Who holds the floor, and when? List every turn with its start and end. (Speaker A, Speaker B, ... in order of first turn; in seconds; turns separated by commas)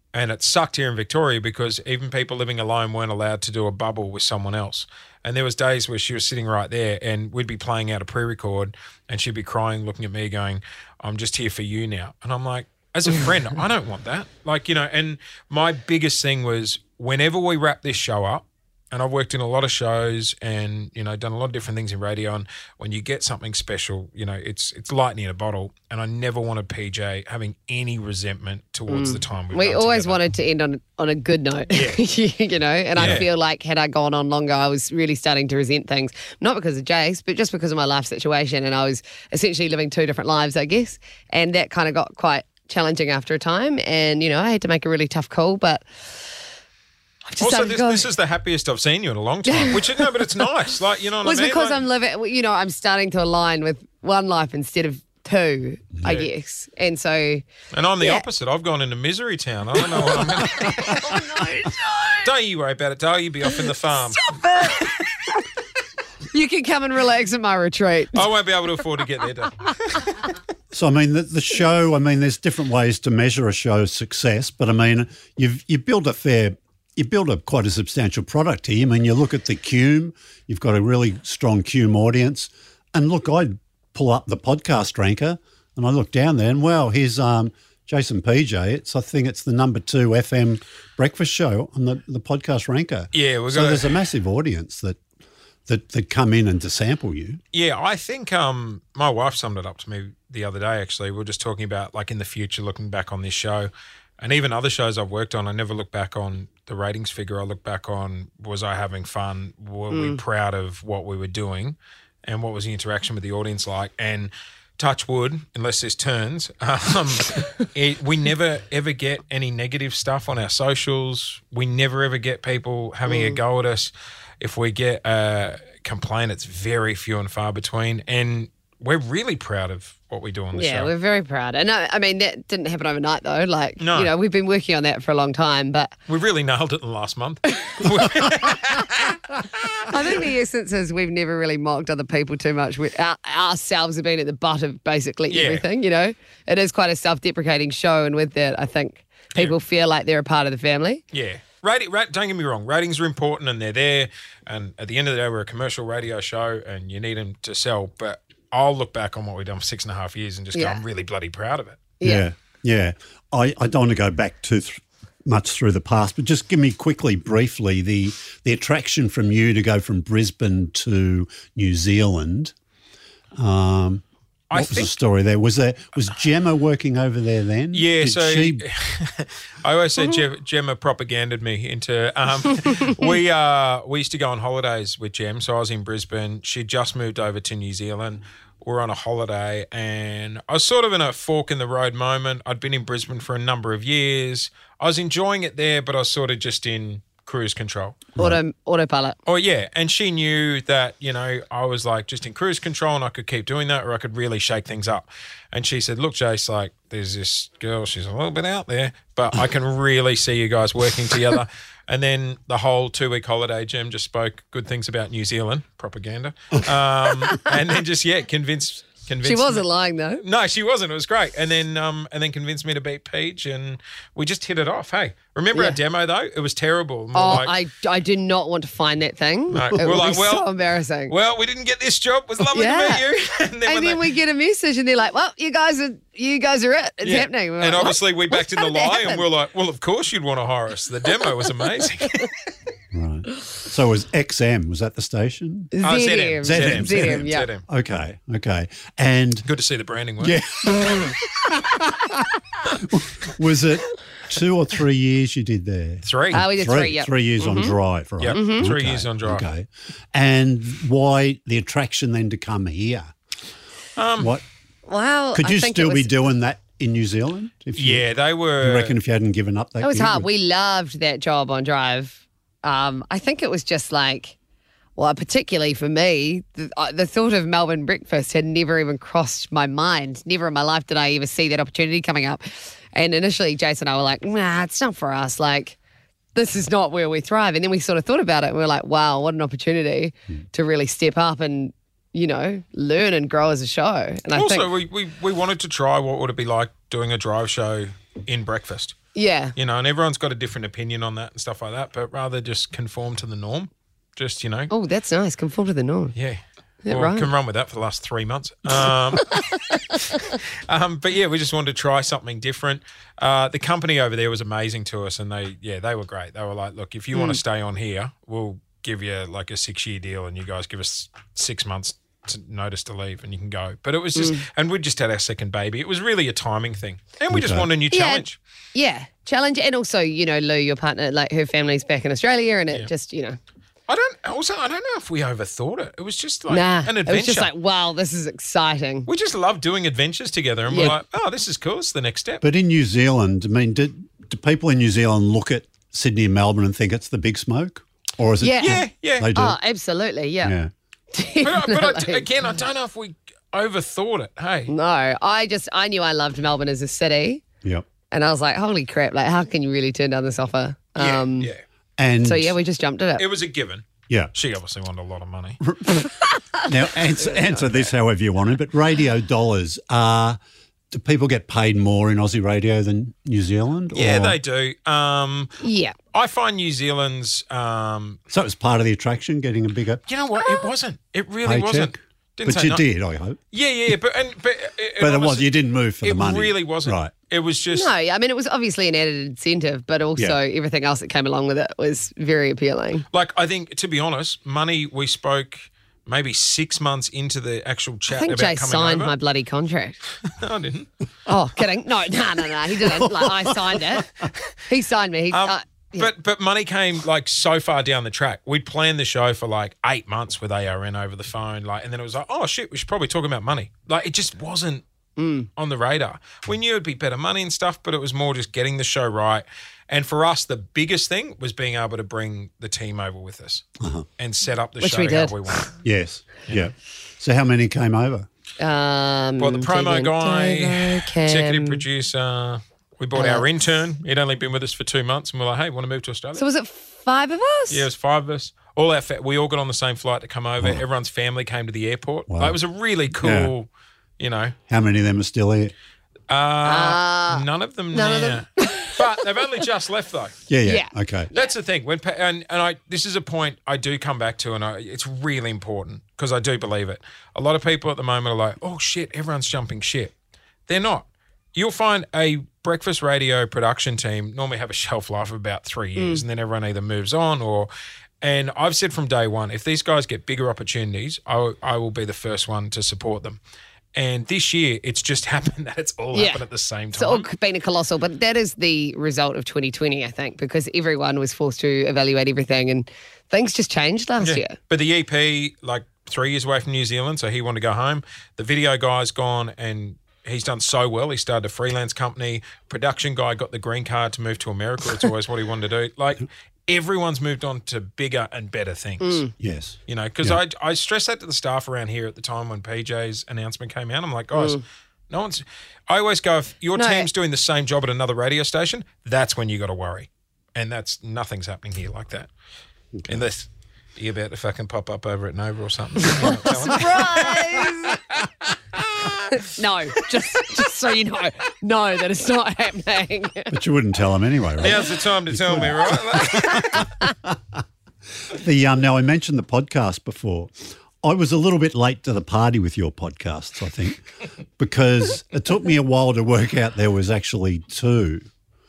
Speaker A: 0.1-30.2, Speaker B: 28.9-46.3, Speaker A: 31.7-32.0, Speaker A: 33.0-33.3, Speaker B: 47.3-48.1, Speaker A: 47.4-51.8, Speaker B: 49.5-50.5, Speaker B: 51.2-57.5, Speaker A: 57.7-61.2, Speaker B: 59.8-62.3, Speaker A: 62.2-64.4, Speaker B: 63.6-65.0, Speaker B: 66.3-68.2, Speaker A: 68.1-70.2, Speaker C: 70.7-95.0, Speaker A: 93.1-93.9, Speaker C: 95.7-97.4, Speaker A: 97.5-130.9, Speaker B: 109.9-110.2, Speaker B: 123.1-123.4, Speaker B: 130.5-135.9, Speaker A: 133.8-134.1, Speaker A: 136.1-140.2, Speaker B: 139.8-151.0, Speaker A: 145.3-145.7, Speaker A: 151.1-161.9, Speaker B: 160.6-160.8, Speaker B: 162.0-162.3, Speaker C: 162.0-172.5, Speaker C: 173.4-178.6, Speaker A: 174.5-174.9, Speaker A: 177.7-198.1, Speaker B: 198.2-199.2, Speaker A: 199.3-219.7, Speaker B: 219.2-220.2, Speaker A: 220.2-227.5, Speaker B: 227.1-231.1, Speaker A: 229.5-230.5, Speaker A: 231.1-234.1, Speaker B: 232.5-233.1, Speaker B: 233.7-239.2, Speaker A: 237.0-242.3, Speaker C: 242.9-245.7, Speaker B: 245.7-247.5, Speaker A: 245.8-247.6, Speaker C: 246.4-249.5, Speaker A: 249.5-250.4, Speaker C: 250.2-263.1, Speaker A: 256.0-256.4, Speaker B: 256.3-257.8, Speaker A: 258.2-259.5, Speaker B: 258.3-258.7, Speaker A: 264.0-264.4, Speaker C: 264.2-264.4, Speaker B: 264.9-266.1, Speaker C: 265.4-268.1, Speaker A: 267.8-269.0, Speaker C: 268.6-270.3, Speaker B: 269.8-274.4, Speaker B: 275.0-285.8, Speaker B: 286.4-294.7, Speaker A: 294.4-299.0, Speaker B: 299.1-299.6, Speaker A: 299.6-304.7, Speaker B: 304.7-306.1, Speaker A: 306.1-328.4, Speaker B: 306.9-307.3, Speaker B: 309.2-310.0, Speaker B: 317.1-317.4, Speaker B: 324.2-324.4, Speaker C: 327.3-327.7, Speaker B: 327.9-333.4, Speaker A: 333.9-337.5, Speaker B: 336.5-339.1, Speaker A: 339.1-342.4, Speaker B: 340.7-341.0, Speaker C: 342.4-349.6, Speaker B: 348.4-350.6, Speaker A: 348.6-349.3, Speaker C: 350.4-350.7, Speaker B: 351.1-352.3, Speaker A: 351.4-354.7, Speaker B: 354.7-357.4, Speaker B: 358.1-361.5, Speaker A: 361.0-361.6, Speaker C: 362.0-362.5, Speaker B: 362.2-363.3, Speaker A: 363.2-365.6, Speaker C: 365.6-370.4, Speaker B: 366.1-366.4, Speaker C: 370.9-374.4, Speaker A: 373.9-375.6, Speaker B: 375.6-375.9, Speaker A: 376.1-378.2, Speaker C: 378.3-380.0, Speaker A: 380.1-382.8, Speaker C: 381.4-383.4, Speaker A: 383.5-387.9, Speaker C: 385.0-387.1, Speaker B: 387.7-393.1, Speaker A: 393.1-399.1, Speaker B: 398.1-400.0, Speaker A: 400.2-400.9, Speaker B: 401.3-404.1, Speaker C: 402.9-404.3, Speaker B: 404.7-406.1, Speaker A: 405.3-414.8, Speaker B: 415.2-415.5, Speaker A: 415.6-423.7, Speaker C: 423.8-424.1, Speaker A: 424.2-425.8, Speaker B: 424.8-425.6, Speaker C: 425.8-428.3, Speaker B: 428.6-431.8, Speaker A: 429.4-436.4, Speaker B: 433.1-433.4, Speaker B: 436.4-437.9, Speaker A: 437.7-443.7, Speaker C: 442.3-442.6, Speaker C: 443.2-443.5, Speaker A: 444.2-444.6, Speaker C: 444.7-445.7, Speaker A: 446.3-450.4, Speaker B: 446.6-449.4, Speaker C: 450.5-451.3, Speaker B: 450.6-451.5, Speaker A: 451.3-460.1, Speaker A: 460.7-467.7, Speaker B: 466.0-466.2, Speaker A: 468.2-473.4, Speaker A: 473.9-477.3, Speaker B: 476.1-476.4, Speaker B: 476.9-484.6, Speaker A: 484.2-499.3, Speaker B: 499.0-499.3, Speaker C: 499.4-500.4, Speaker A: 499.9-512.3, Speaker B: 504.3-504.6, Speaker B: 506.8-507.1, Speaker C: 512.9-513.2, Speaker A: 513.1-517.6, Speaker B: 516.2-518.0, Speaker A: 518.2-519.4, Speaker B: 519.3-523.5, Speaker C: 523.5-527.6, Speaker A: 524.6-526.9, Speaker C: 528.3-534.0, Speaker C: 534.6-538.2